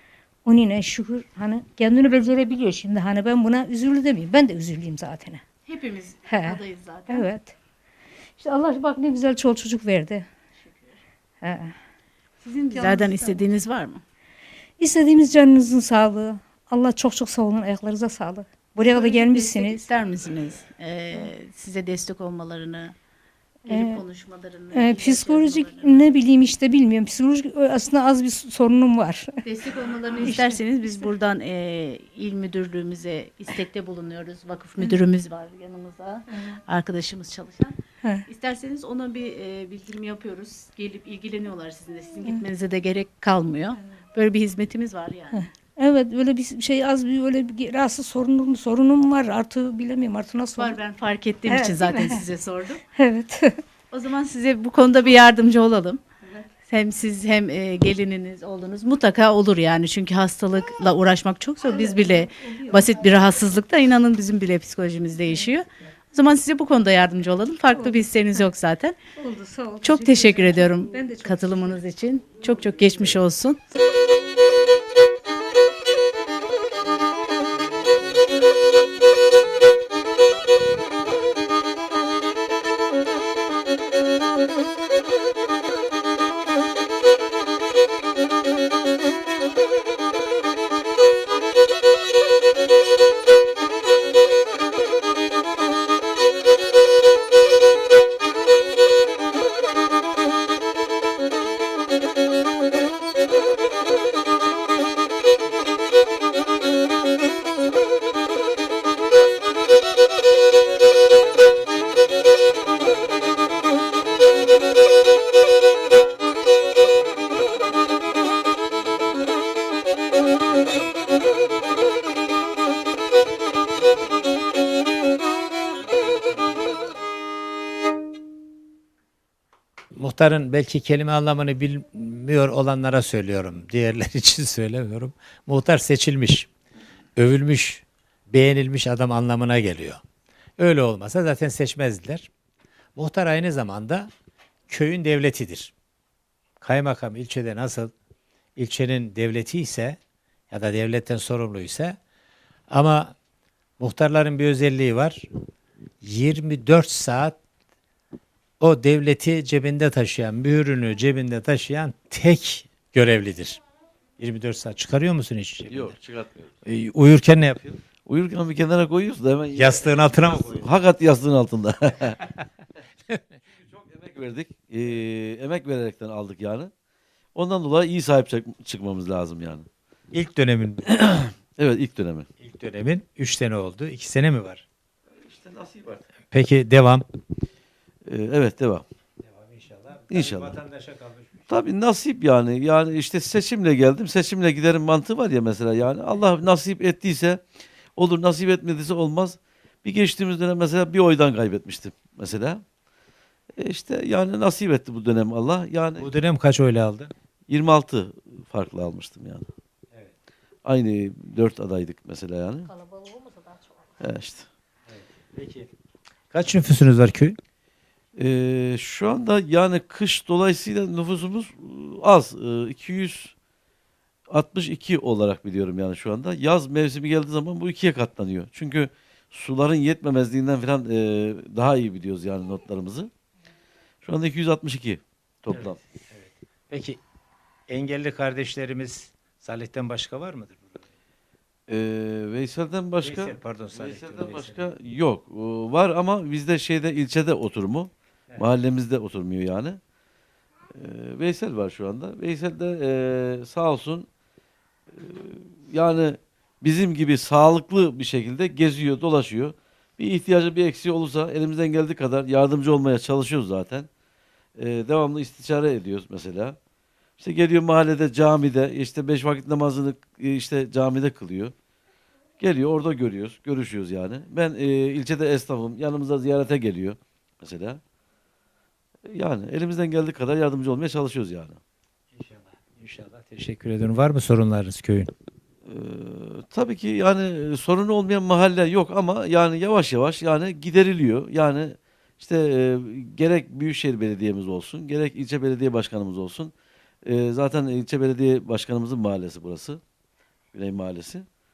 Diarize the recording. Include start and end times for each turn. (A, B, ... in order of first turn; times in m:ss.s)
0:00.4-0:05.4 A
0:05.7-0:07.2 B
0:06.3-0:07.5 A
0:08.4-0:10.3 A
0:10.6-0:11.0 B
0:11.4-0:11.7 A
0:12.4-0:14.0 B
0:12.8-0:13.4 A
0:14.8-0:19.8 A
0:18.9-0:23.0 B
0:23.7-0:24.0 A
0:23.7-0:26.1 B
0:24.7-0:29.4 A
0:29.4-0:45.5 B
0:30.2-0:31.0 A
0:45.8-0:50.8 A
0:50.6-0:52.8 B
0:51.5-0:52.2 A
0:53.0-0:53.6 A
0:53.9-0:56.0 B
0:56.6-1:09.0 B
1:01.7-1:03.0 A
1:07.7-1:08.4 A
1:09.2-1:11.8 A
1:09.8-1:13.6 B
2:10.0-2:16.5 C
2:17.2-2:20.0 C
2:20.6-2:22.3 C
2:23.0-2:24.1 C
2:24.7-2:25.7 C
2:26.6-2:27.9 C
2:28.6-2:30.0 C
2:30.5-2:32.0 C
2:32.7-2:33.2 C
2:33.8-2:35.2 C
2:36.0-2:37.4 C
2:38.6-2:43.6 C
2:44.2-2:46.0 C
2:45.7-2:46.5 D
2:46.6-2:47.6 C
2:48.1-2:52.3 D
2:49.5-2:50.7 C
2:53.6-2:56.7 D
2:57.4-2:59.7 D
3:00.1-3:01.0 C
3:01.0-3:02.3 D
3:02.4-3:04.6 C
3:05.1-3:06.1 D
3:06.3-3:07.0 C
3:08.1-3:08.8 D
3:09.2-3:11.4 C
3:10.1-3:10.6 D
3:11.5-3:17.4 D
3:18.0-3:22.6 D
3:23.6-3:26.1 D
3:26.0-3:27.1 C
3:27.5-3:29.5 D
3:30.6-3:32.7 D
3:32.7-3:33.8 A
3:34.0-3:34.5 D
3:34.9-3:35.7 C
3:36.3-3:37.4 C
3:38.2-3:43.3 D
3:44.3-3:53.1 D
3:54.0-3:55.8 D
3:55.5-3:57.0 C
3:57.7-4:00.8 C
4:01.7-4:09.8 D
4:03.0-4:04.7 C
4:10.7-4:14.1 D
4:14.9-4:23.9 D
4:24.6-4:26.6 D
4:27.2-4:31.5 D
4:32.4-4:37.8 D
4:39.1-4:41.6 D
4:42.2-4:45.1 C
4:45.7-4:56.5 D
4:57.0-4:59.8 D
5:00.5-5:01.2 D